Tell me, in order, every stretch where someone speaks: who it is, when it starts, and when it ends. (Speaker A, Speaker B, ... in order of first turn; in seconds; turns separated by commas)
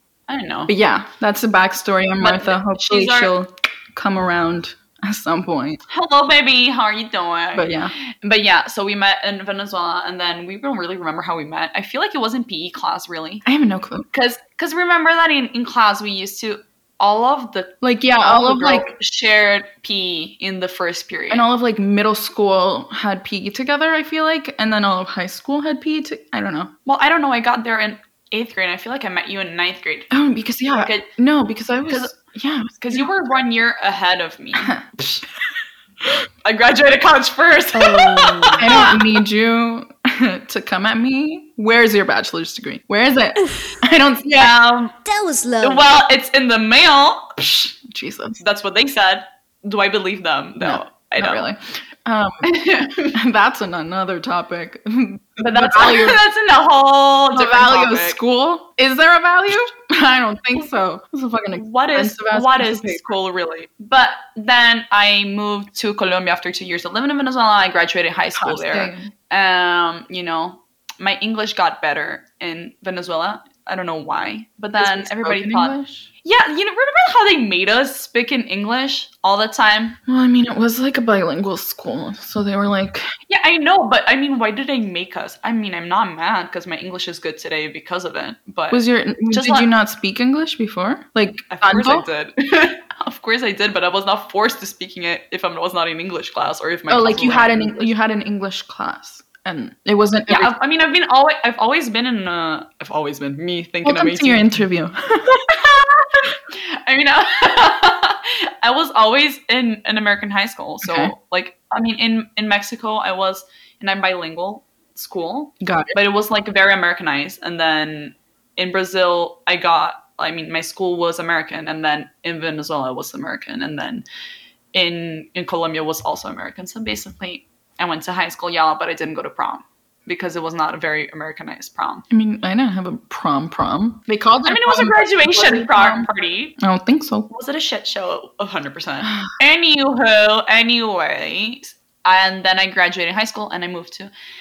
Speaker A: 0.3-0.7, Speaker B: 0.7-5.8, Speaker A: 2.2-3.3, Speaker A: 5.9-13.5, Speaker B: 7.5-7.9, Speaker B: 13.5-14.1, Speaker A: 14.1-21.4, Speaker B: 17.8-18.9, Speaker B: 21.3-26.7, Speaker A: 26.9-30.1, Speaker B: 30.1-33.1, Speaker A: 30.8-31.1, Speaker A: 32.8-34.7, Speaker B: 34.6-35.2, Speaker A: 36.4-38.9, Speaker C: 37.8-39.0, Speaker B: 38.6-44.5, Speaker A: 44.3-45.0, Speaker C: 45.0-45.9, Speaker A: 45.6-47.7, Speaker B: 47.7-48.4, Speaker A: 48.4-51.5, Speaker B: 50.6-56.2, Speaker A: 55.4-58.2, Speaker B: 57.3-63.1, Speaker A: 61.5-80.0, Speaker B: 68.4-69.1, Speaker B: 74.8-76.1, Speaker B: 80.1-83.1, Speaker A: 83.3-89.7, Speaker B: 88.7-92.1, Speaker A: 91.5-97.9, Speaker B: 96.9-100.5, Speaker A: 100.3-104.6, Speaker B: 103.8-106.0, Speaker A: 106.5-124.0, Speaker B: 110.8-111.1, Speaker B: 115.6-116.0, Speaker A: 124.7-132.0, Speaker B: 132.1-137.3, Speaker A: 134.5-136.6, Speaker A: 137.3-144.1